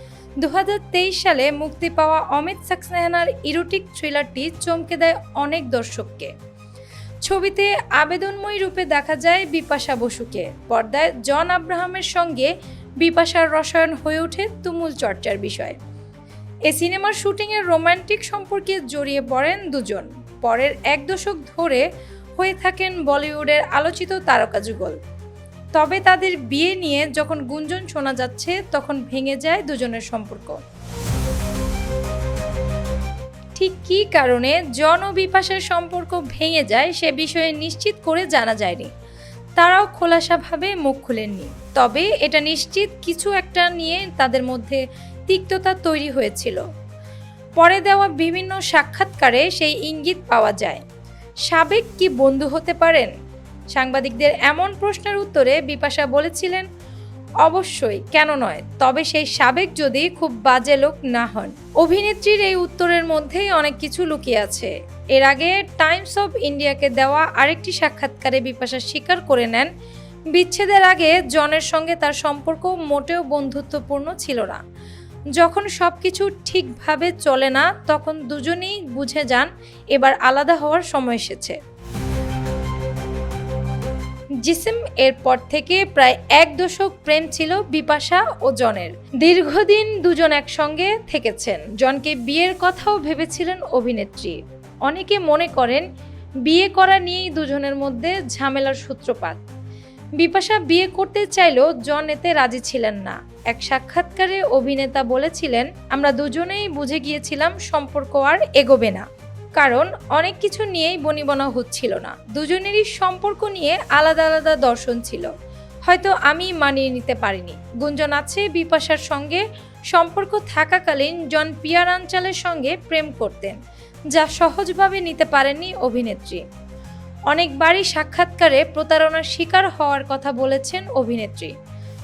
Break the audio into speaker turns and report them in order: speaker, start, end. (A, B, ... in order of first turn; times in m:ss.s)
0:00.4-0:06.3 A
0:07.2-0:15.8 A
0:16.7-0:21.8 A
0:22.4-0:25.0 A
0:25.7-0:30.6 A
0:33.6-0:38.9 A
0:39.6-0:46.6 A
0:47.6-0:50.8 A
0:51.5-0:53.1 A
0:53.7-0:56.7 A
0:57.4-1:09.7 A
1:10.3-1:14.6 A
1:15.4-1:21.6 A
1:24.4-1:35.8 A
1:36.4-1:39.4 A
1:40.2-1:49.0 A
1:49.6-1:55.3 A
1:55.8-2:03.6 A
2:04.1-2:06.4 A
2:07.3-2:11.5 A